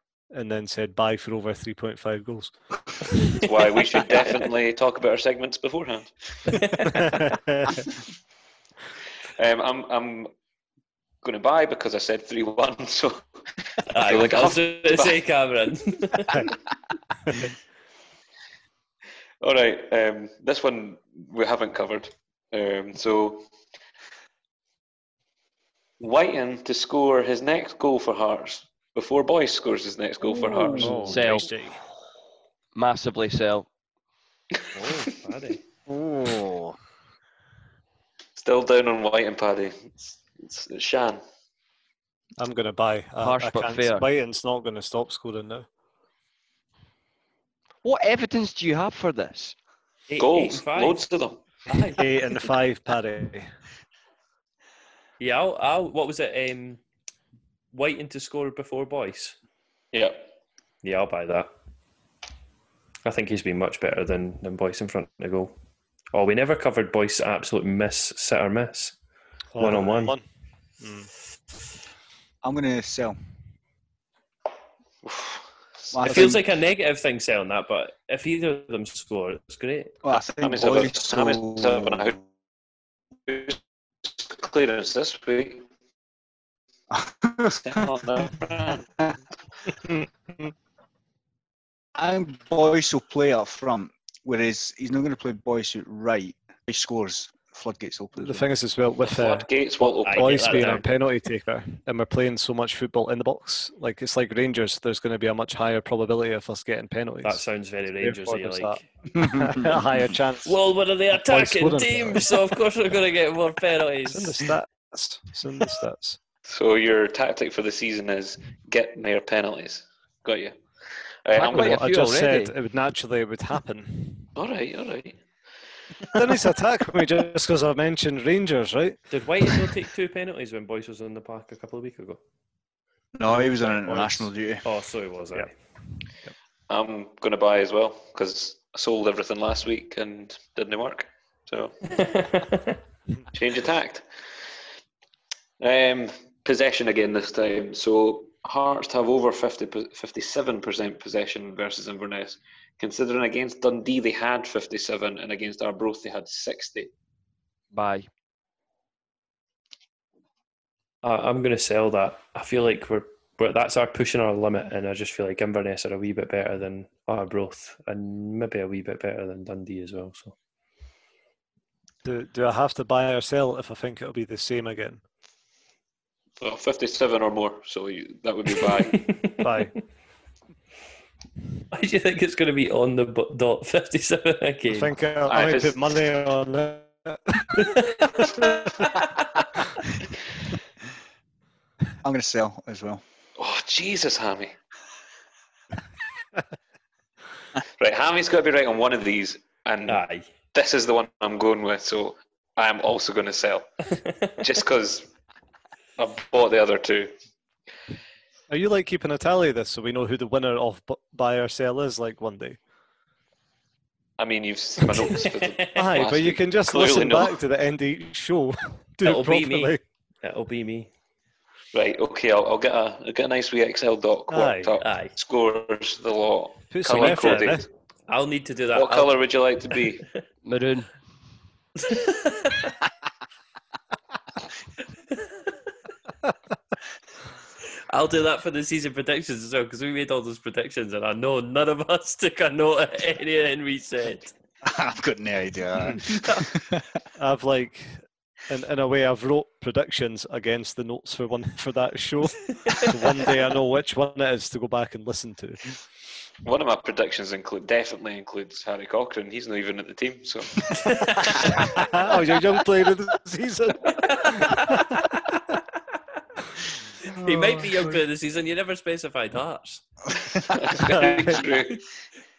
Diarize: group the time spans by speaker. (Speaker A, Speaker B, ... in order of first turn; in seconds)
Speaker A: 0.3-2.6, 7.0-7.8, 30.7-31.8, 42.4-45.7, 52.0-53.6, 69.5-70.2, 70.8-71.1, 98.2-99.5, 100.1-107.4, 108.0-110.6, 111.1-112.2, 114.1-116.2, 121.5-124.3, 126.1-129.0, 133.3-134.3, 135.3-136.3, 172.0-175.0, 179.4-179.8, 184.7-187.8, 208.5-212.6, 215.8-219.8, 224.3-224.8, 226.7-227.7, 247.2-255.8, 261.6-265.0
Speaker B: 3.4-6.6, 9.4-10.3, 11.2-13.3, 13.9-15.2, 19.4-23.5, 26.0-31.2, 38.4-41.2, 50.2-51.5, 59.9-60.3, 75.0-76.2, 80.4-82.2, 83.3-85.7, 87.6-88.9, 99.0-100.8, 116.5-121.8, 124.4-125.2, 136.7-141.8, 143.3-144.2, 145.6-156.9, 176.4-179.1, 185.3-185.8, 193.4-194.6, 197.8-200.0, 200.5-203.7, 204.4-205.1, 206.0-207.2, 214.2-217.4, 221.7-227.7, 228.7-230.1, 256.4-262.0, 270.3-271.9
Speaker C: 6.5-7.1, 13.9-16.5, 30.8-31.5, 34.7-35.6, 50.1-51.0, 51.7-52.0, 55.2-56.8, 57.7-59.4, 60.8-61.5, 63.0-65.5, 66.1-69.0, 69.6-70.2, 76.0-80.0, 100.0-100.8, 107.2-108.8, 110.5-114.5, 129.1-132.2, 134.6-135.5, 141.9-142.8, 161.0-170.3, 178.9-179.4, 181.7-184.9, 187.6-188.9, 199.9-200.3, 219.0-220.9, 224.8-225.1, 226.9-227.4, 228.1-229.2, 229.7-230.2, 231.8-232.8, 235.2-235.5, 237.9-244.3, 260.8-261.5, 264.1-265.1, 267.1-269.8
Speaker D: 31.1-31.5, 32.8-33.7, 43.2-44.0, 47.8-49.6, 121.3-122.5, 157.7-158.1, 230.4-231.0
Speaker E: 35.9-36.8, 72.4-73.2, 75.9-76.4, 80.0-82.2, 86.9-87.9, 92.0-98.5, 109.2-109.8, 133.2-134.6, 192.0-193.0, 244.6-247.0